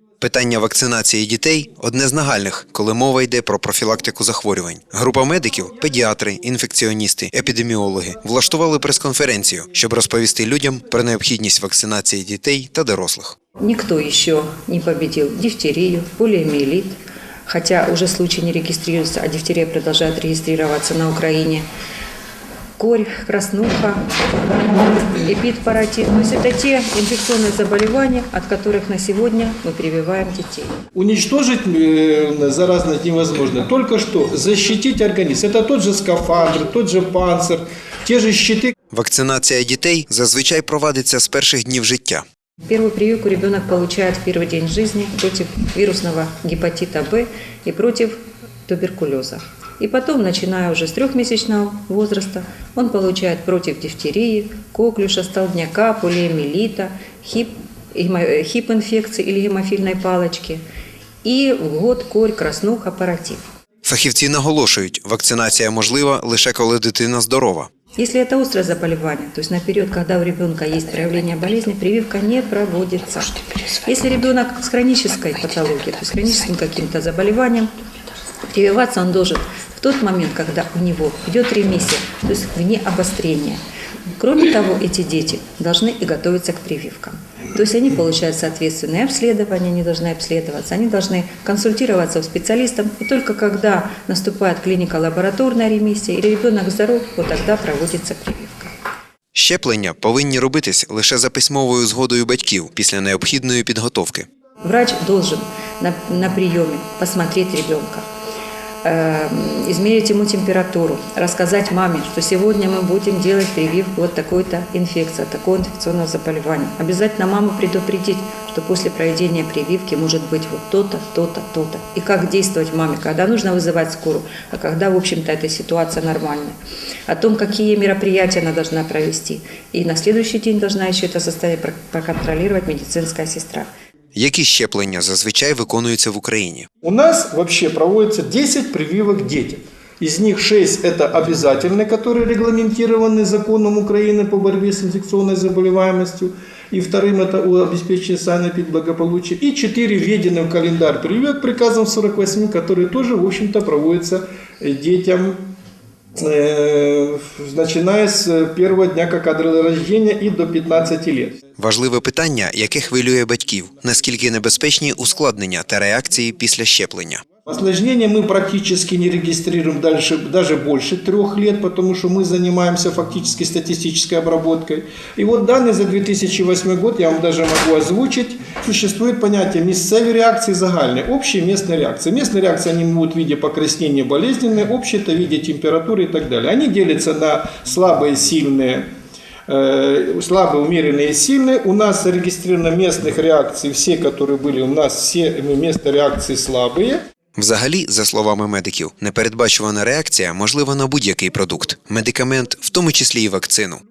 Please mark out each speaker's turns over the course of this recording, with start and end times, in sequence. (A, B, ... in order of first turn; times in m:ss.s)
0:00.2-0:13.4 A
0:13.6-0:21.6 B
0:22.8-0:24.1 B
0:24.6-0:30.7 B
0:30.9-0:38.7 C
0:38.9-0:42.2 A
0:42.6-1:00.6 B
1:01.2-1:03.4 B
1:03.8-1:07.7 A
1:08.0-1:13.3 B
1:13.8-1:17.7 B
1:18.5-1:23.6 B
1:24.2-1:38.7 B
1:39.3-1:44.3 A
1:44.6-1:48.0 B
1:48.8-2:06.6 B
2:07.1-2:13.7 B
2:14.2-2:16.7 A
2:16.8-2:35.5 C
2:36.2-2:41.4 C
2:41.6-2:47.2 A
2:47.5-3:08.9 C
3:09.5-3:17.0 C
3:17.4-3:23.8 A